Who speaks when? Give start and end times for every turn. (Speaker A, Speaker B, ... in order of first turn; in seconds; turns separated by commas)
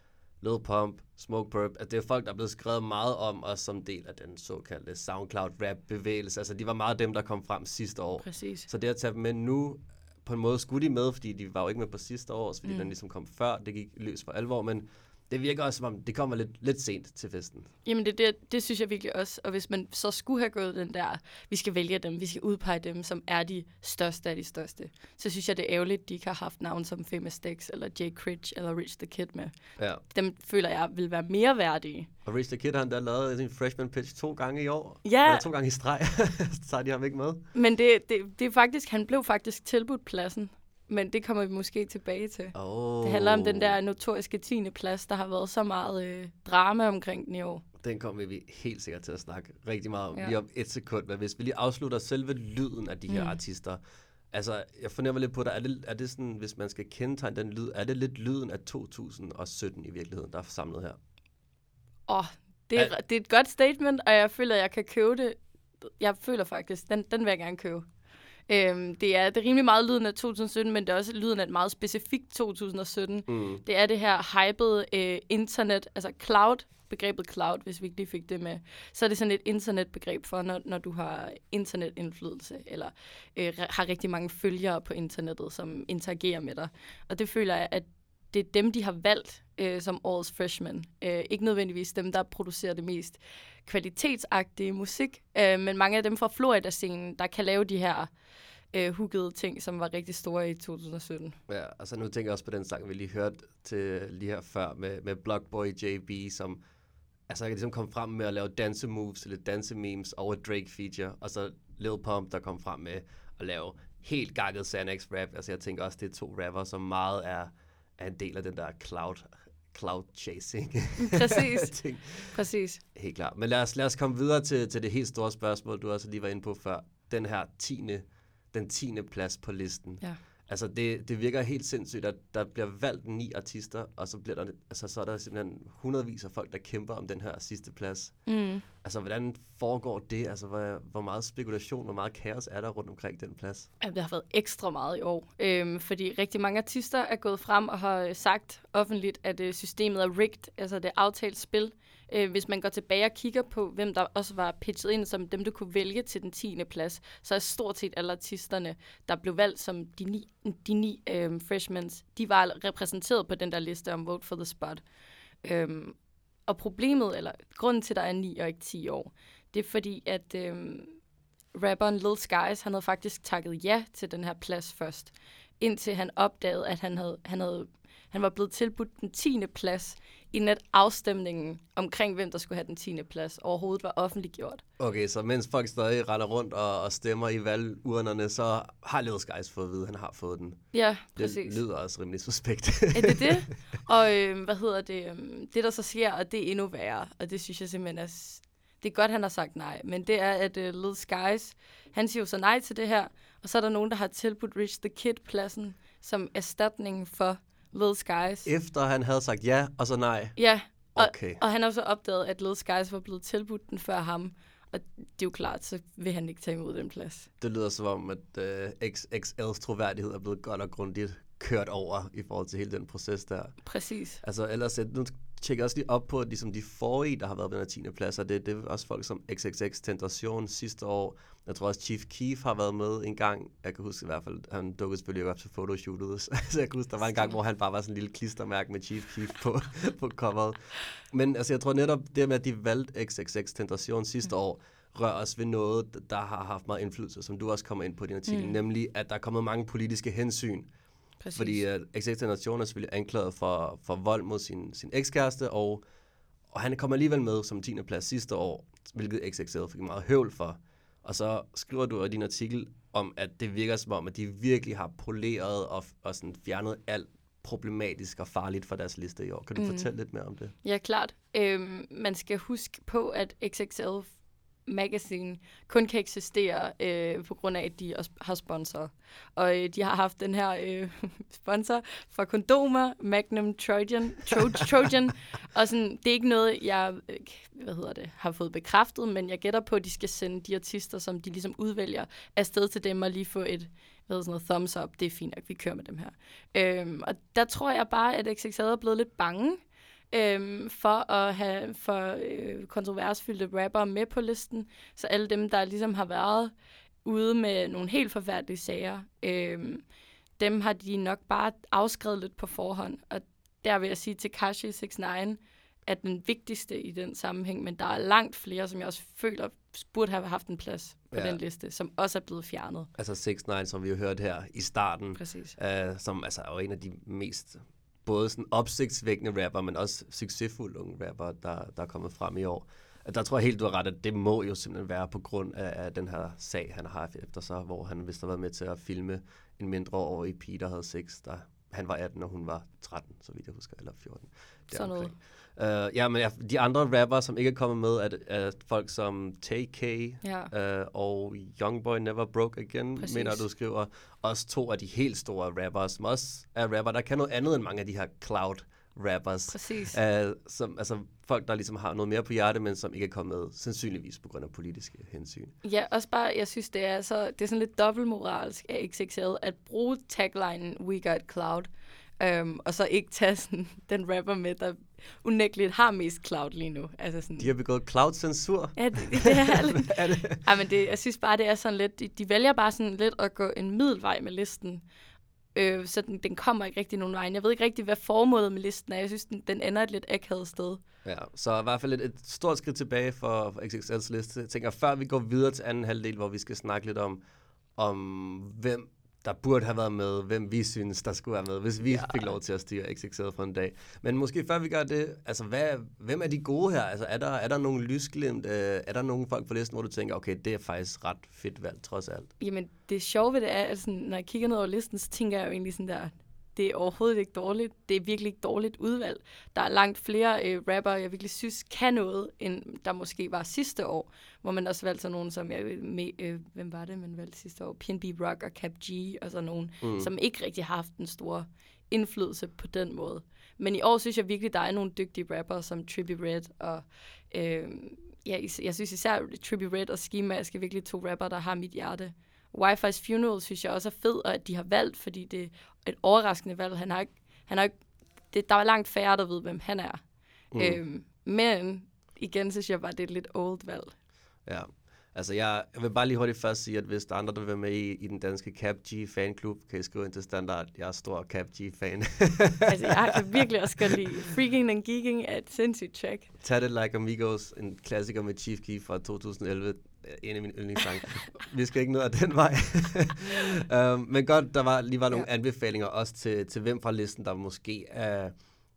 Speaker A: 0.4-17.7, Speaker B: 8.2-8.7, Speaker B: 17.9-32.1, Speaker A: 32.2-37.5, Speaker B: 35.0-35.5, Speaker B: 37.5-47.6, Speaker A: 42.5-43.8, Speaker A: 47.8-53.8, Speaker B: 53.1-53.4, Speaker A: 54.3-61.0, Speaker B: 62.1-67.9, Speaker B: 68.5-98.1, Speaker A: 73.3-73.6, Speaker B: 98.7-101.4, Speaker A: 101.5-106.6, Speaker A: 107.3-122.4, Speaker B: 121.0-121.8, Speaker B: 122.3-122.8, Speaker A: 123.0-143.7, Speaker B: 138.3-138.6, Speaker B: 143.8-164.8, Speaker B: 165.4-166.0, Speaker B: 166.5-170.9, Speaker B: 171.5-184.6, Speaker A: 184.8-193.4, Speaker B: 190.7-191.6, Speaker B: 192.9-208.5, Speaker A: 208.4-211.4, Speaker B: 210.4-217.3, Speaker A: 217.4-223.6, Speaker B: 223.7-224.2, Speaker A: 224.2-250.7, Speaker B: 237.0-237.3, Speaker B: 248.3-248.6, Speaker B: 251.2-251.6, Speaker A: 251.3-255.8, Speaker A: 256.5-270.5, Speaker B: 269.6-269.9, Speaker B: 270.6-274.1, Speaker B: 274.7-306.5, Speaker B: 307.1-309.8, Speaker B: 310.4-322.9, Speaker A: 321.1-321.4, Speaker A: 323.0-365.6, Speaker B: 325.2-325.6, Speaker B: 344.7-345.2, Speaker B: 350.2-350.5, Speaker B: 353.0-353.4, Speaker B: 359.5-360.0, Speaker B: 365.6-371.7, Speaker B: 372.2-377.5, Speaker A: 377.4-380.4, Speaker B: 378.8-384.8, Speaker B: 385.6-390.8, Speaker A: 391.1-397.2, Speaker A: 397.8-412.3, Speaker B: 412.4-447.7, Speaker A: 429.8-430.1, Speaker B: 448.3-450.0, Speaker A: 450.5-450.8, Speaker B: 450.6-453.9, Speaker A: 454.5-464.0, Speaker B: 462.7-466.3, Speaker A: 466.4-478.3